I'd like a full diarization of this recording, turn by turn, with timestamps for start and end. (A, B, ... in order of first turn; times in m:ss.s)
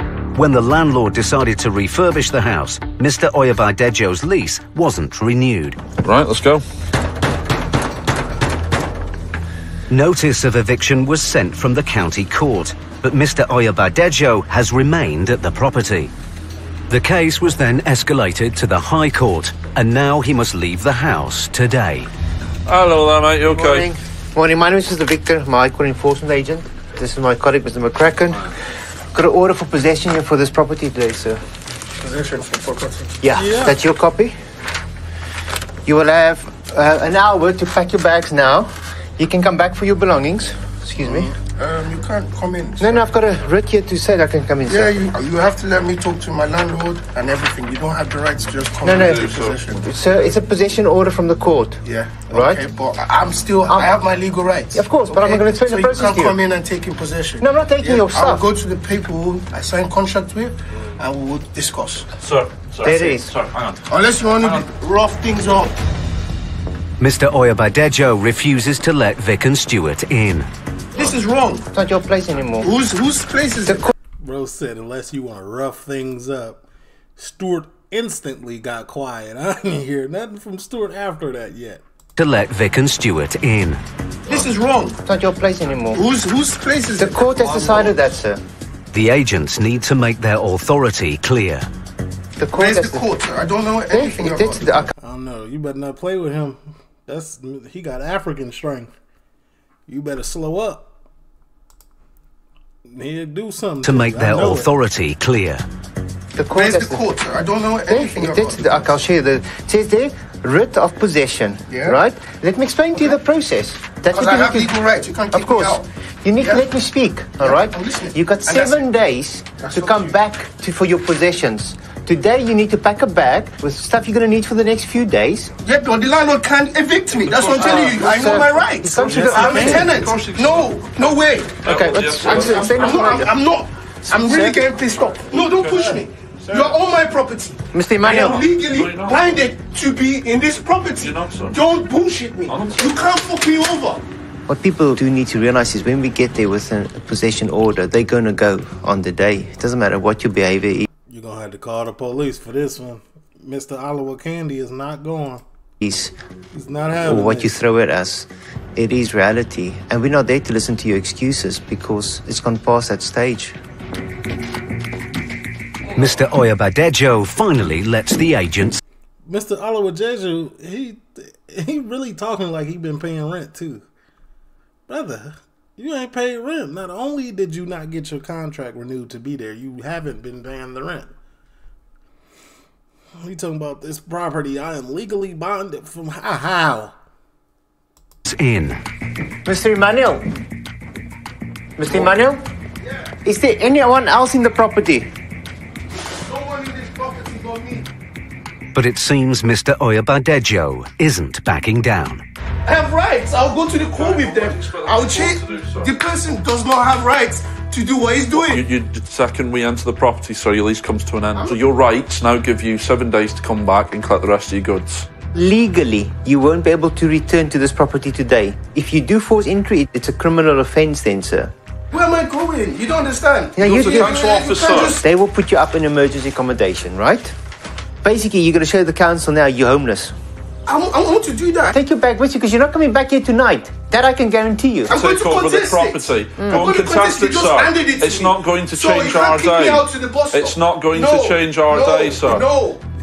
0:00.3-0:05.8 A
0:06.0-0:06.6 B
0:09.9-0:16.1 A
0:16.9-0:22.1 A
0:22.6-0:23.9 B
0:23.4-0:28.5 C
0:29.1-0:31.4 C
0:32.0-0:33.1 D
0:33.2-0:34.4 C
0:33.3-0:33.8 E
0:35.8-0:41.3 C
0:41.0-0:43.1 D
0:42.8-0:45.0 C
0:44.7-0:49.9 D
0:48.8-0:52.6 C
0:48.9-0:49.9 B
0:51.8-1:02.1 D
0:53.7-0:54.0 C
0:54.7-0:56.4 C
0:57.4-0:58.4 C
1:02.2-1:03.8 B
1:02.8-1:03.3 C
1:03.9-1:05.7 D
1:07.0-1:10.5 A
1:10.9-1:11.7 D
1:11.7-1:12.7 C
1:12.6-1:13.9 D
1:14.2-1:16.6 E
1:17.2-1:21.8 E
1:22.2-1:23.8 A
1:24.3-1:25.0 D
1:25.0-1:26.0 C
1:25.9-1:28.0 D
1:27.0-1:28.4 C
1:28.9-1:31.7 A
1:32.4-1:33.1 C
1:32.5-1:34.8 D
1:33.9-1:34.9 C
1:35.0-1:38.9 E
1:39.9-1:40.9 E
1:42.8-1:44.7 E
1:43.8-1:45.6 A
1:46.3-1:47.0 C
1:46.5-1:48.9 D
1:47.8-1:54.8 C
1:51.7-1:52.0 D
1:54.1-1:55.8 D
1:55.3-2:05.5 C
1:56.4-1:56.7 D
1:57.4-1:58.9 D
1:59.6-2:00.2 D
2:05.6-2:24.0 D
2:07.3-2:10.1 C
2:08.9-2:13.1 B
2:09.1-2:09.9 E
2:11.6-2:13.4 C
2:14.0-2:14.6 C
2:15.3-2:16.7 B
2:17.7-2:18.5 C
2:18.7-2:19.5 B
2:21.0-2:21.6 B
2:22.5-2:22.9 B
2:24.5-2:30.9 C
2:31.1-2:35.4 E
2:35.8-2:36.1 C
2:36.5-2:37.6 E
2:37.0-2:43.6 C
2:45.9-2:48.8 A
2:49.2-2:53.8 E
2:54.9-3:01.1 E
3:03.2-3:06.9 E
3:08.2-3:08.8 A
3:09.4-3:10.2 C
3:11.8-3:12.4 C
3:11.9-3:12.2 D
3:13.2-3:15.1 C
3:16.2-3:17.9 D
3:18.7-3:22.2 A
3:22.6-3:28.6 D
3:23.9-3:25.9 B
3:28.3-3:35.1 B
3:31.4-3:31.6 D
3:35.3-3:41.5 C
3:41.9-3:45.0 D
3:43.6-3:44.3 C
3:43.6-3:45.0 B
3:45.0-3:47.3 C
3:48.0-3:50.2 C
3:50.6-3:51.7 D
3:51.7-3:55.0 C
3:54.9-4:02.8 D
3:54.9-4:02.5 B
3:56.4-3:56.7 C